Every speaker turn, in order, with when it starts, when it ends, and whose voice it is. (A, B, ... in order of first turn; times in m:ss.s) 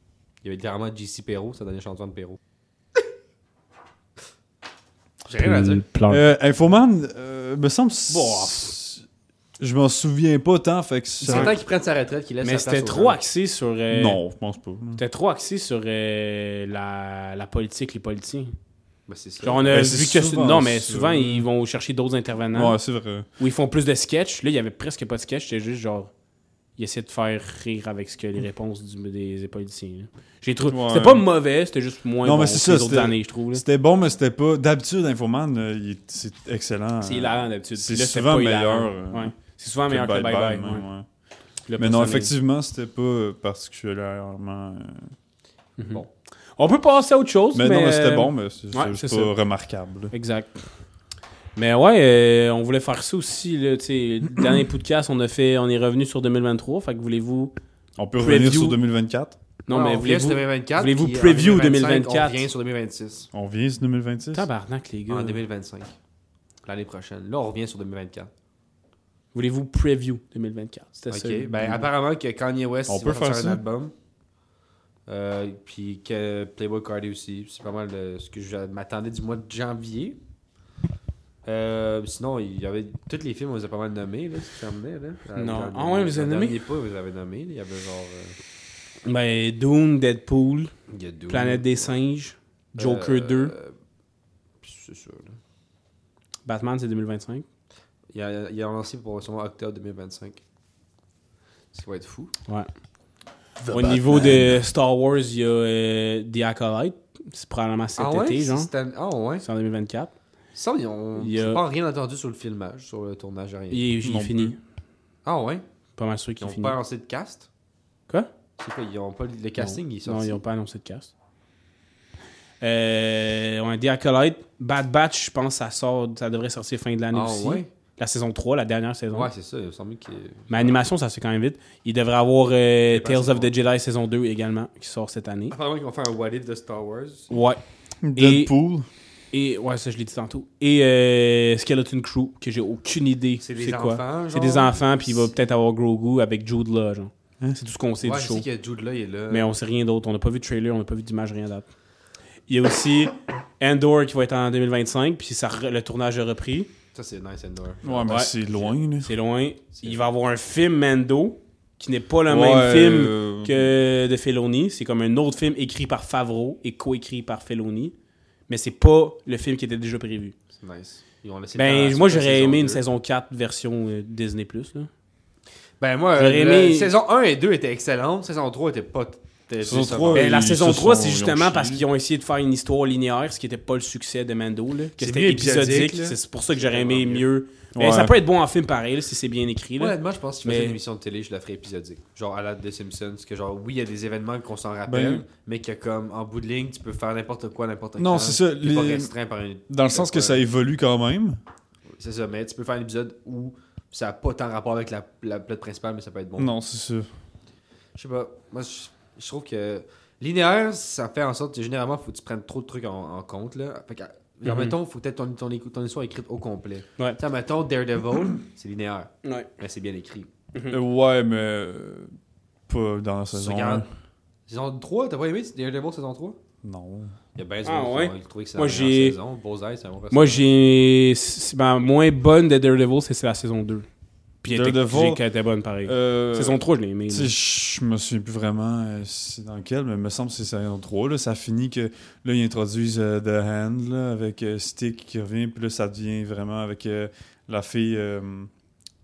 0:00.4-0:02.4 A
0:05.2-0:05.8 A
0:05.4-0:06.2 B
0:06.1-0:09.0 C
0:08.1-0:08.7 B
0:09.6-0:11.5 C
0:11.2-0:13.2 A
0:11.3-0:11.5 B
0:12.4-0:14.2 B
0:13.9-0:15.0 C
0:15.0-0:18.5 B
0:19.1-0:19.7 A
0:19.4-0:22.8 B
0:19.7-0:21.5 C
0:22.5-0:23.3 C
0:23.4-0:26.1 B
0:26.8-0:33.6 B
0:30.7-0:31.2 C
0:32.2-0:39.3 C
0:37.0-0:40.8 B
0:39.9-0:41.0 C
0:41.7-0:42.3 B
0:41.8-0:45.1 C
0:45.8-0:46.0 B
0:46.6-0:49.3 B
0:47.5-0:50.1 C
0:50.1-0:50.6 B
0:51.6-0:57.5 B
0:58.0-0:59.4 C
0:58.2-0:58.8 B
0:59.6-1:02.4 B
0:59.7-1:03.3 A
1:03.3-1:04.4 C
1:04.3-1:05.4 B
1:05.1-1:05.9 A
1:06.6-1:08.3 A
1:09.3-1:11.5 B
1:11.1-1:13.9 A
1:12.9-1:13.6 C
1:15.1-1:20.2 A
1:21.4-1:28.3 A
1:25.3-1:26.6 B
1:29.0-1:30.7 B
1:30.9-1:31.9 A
1:31.3-1:33.5 B
1:32.8-1:33.7 A
1:34.6-1:35.4 A
1:36.4-1:37.4 B
1:38.1-1:40.4 A
1:41.7-1:42.3 A
1:43.6-1:44.5 A
1:43.7-1:48.7 B
1:48.0-1:49.4 A
1:49.4-1:50.1 B
1:50.5-1:53.8 A
1:51.2-1:51.6 B
1:53.7-1:54.6 B
1:54.0-1:54.5 C
1:55.2-1:55.6 A
1:56.0-1:56.8 B
1:56.4-1:57.5 A
1:58.6-2:00.4 A
1:59.6-2:01.1 B
2:02.6-2:09.3 B
2:07.1-2:07.7 A
2:09.1-2:10.7 A
2:10.5-2:15.5 B
2:12.9-2:13.5 A
2:15.5-2:17.3 A
2:17.3-2:17.6 B
2:18.0-2:18.9 C
2:18.1-2:18.5 B
2:19.3-2:28.4 B
2:23.4-2:24.8 A
2:28.0-2:29.5 A
2:29.3-2:31.6 B
2:32.5-2:36.7 B
2:36.9-2:38.1 A
2:37.8-2:39.1 C
2:38.1-2:38.3 B
2:39.0-2:47.9 B
2:42.3-2:43.7 C
2:48.5-2:50.3 B
2:50.6-2:52.8 A
2:51.5-2:54.9 B
2:55.8-3:00.3 A
2:56.2-2:56.9 B
2:59.6-3:01.8 C
3:00.1-3:10.8 B
3:05.0-3:07.2 A
3:07.7-3:08.1 C
3:09.8-3:20.4 A
3:14.9-3:15.2 C
3:18.0-3:19.1 C
3:19.7-3:21.4 C
3:22.0-3:26.5 A
3:26.4-3:27.1 C
3:28.0-3:40.3 A
3:34.4-3:34.7 B
3:40.7-3:42.1 C
3:42.7-3:43.9 C
3:43.3-3:43.8 A
3:44.5-3:46.4 A
3:46.6-3:47.1 C
3:47.3-3:50.5 A
3:47.6-3:49.2 B
3:50.1-3:53.8 B
3:54.4-3:57.3 B
3:54.5-3:55.2 C
3:55.8-4:08.5 C